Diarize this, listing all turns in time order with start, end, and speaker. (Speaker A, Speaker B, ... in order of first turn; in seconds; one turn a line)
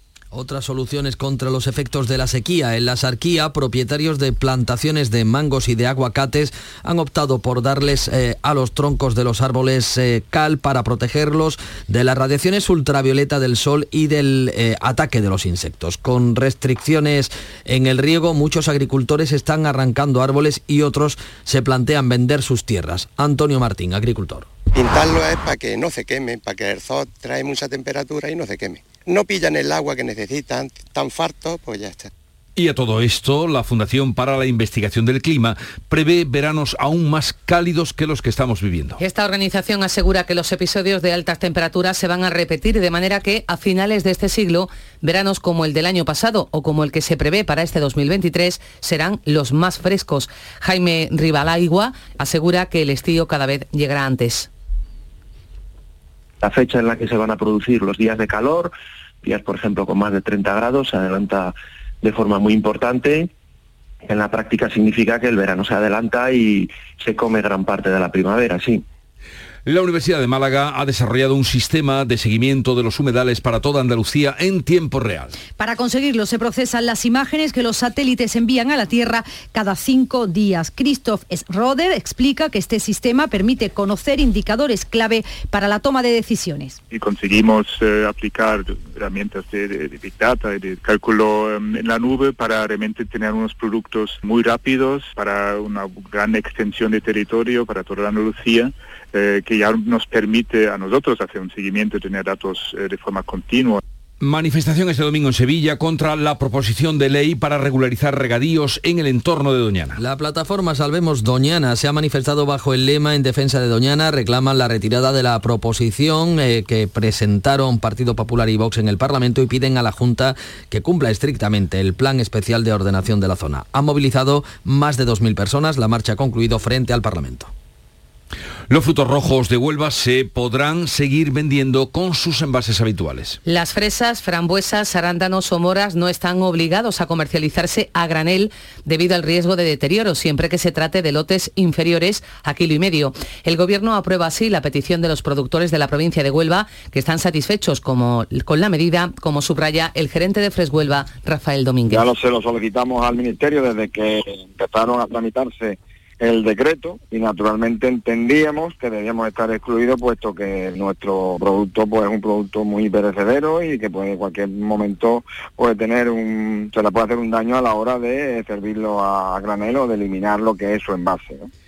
Speaker A: 0.3-24.5
Speaker B: 24.7-32.1
Speaker C: 32.5-39.0
Speaker D: 39.0-54.5
Speaker E: 56.5-58.7
Speaker E: 59.3-61.5
Speaker E: 62.0-63.1
Speaker E: 64.1-68.8
Speaker C: 69.7-75.3
Speaker F: 75.6-86.8
Speaker G: 86.9-103.8
Speaker C: 104.2-110.0
Speaker A: 110.0-127.5
Speaker C: 128.7-133.4
Speaker D: 133.4-152.1
Speaker H: 151.9-171.4